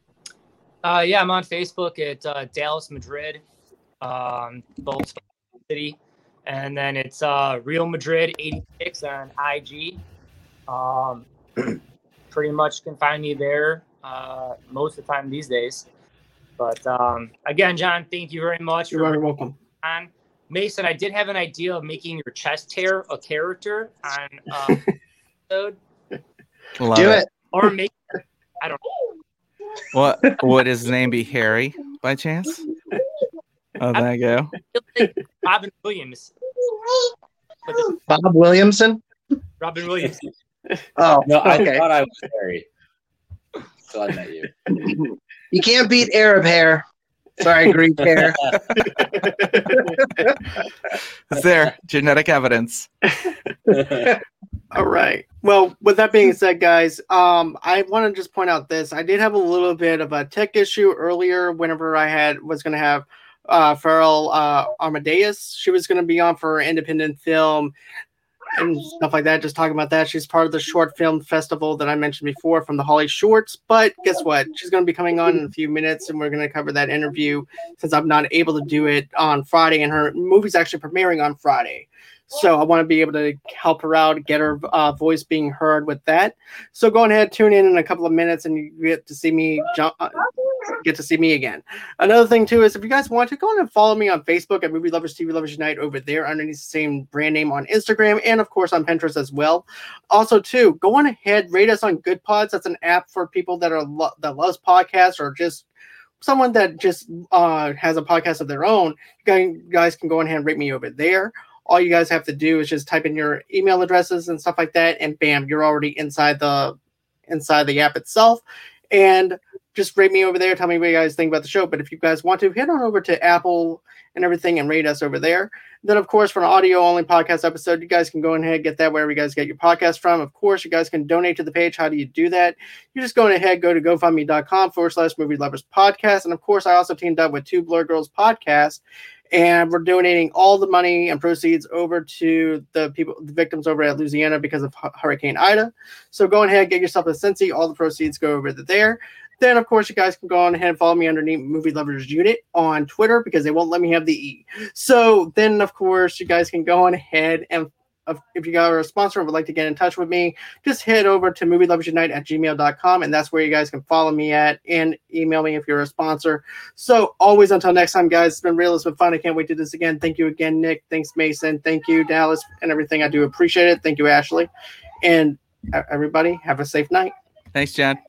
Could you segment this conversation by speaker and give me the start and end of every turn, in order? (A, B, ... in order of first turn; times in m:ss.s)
0:00.8-0:03.4 A
0:04.0-0:10.0 A
0:10.7-0:11.3 A
0:12.3-0:15.9 A
0:16.6-0:19.2 A
0:18.9-0:19.6 B
0:19.8-0:24.9 A
0:25.5-0:25.8 A
0:26.8-0:27.2 C
0:27.0-0:27.3 D
0:27.5-0:28.0 A
0:29.9-0:32.6 C
0:33.8-0:34.5 C
0:34.7-0:36.3 A
0:37.6-0:38.0 A
0:38.1-0:39.0 D
0:39.6-0:40.2 A
0:41.0-0:41.8 D
0:41.2-0:42.7 E
0:43.9-0:44.5 E
0:45.5-0:46.8 D
0:47.4-0:48.7 D
0:48.2-0:48.7 E
0:48.8-0:50.3 B
0:51.3-0:52.9 C
0:53.2-1:07.7 B
0:53.7-0:54.1 E
1:08.6-1:45.6 B
1:46.2-1:56.8 B
1:57.3-2:54.5 B
2:55.0-2:57.1 B
2:57.5-2:58.0 C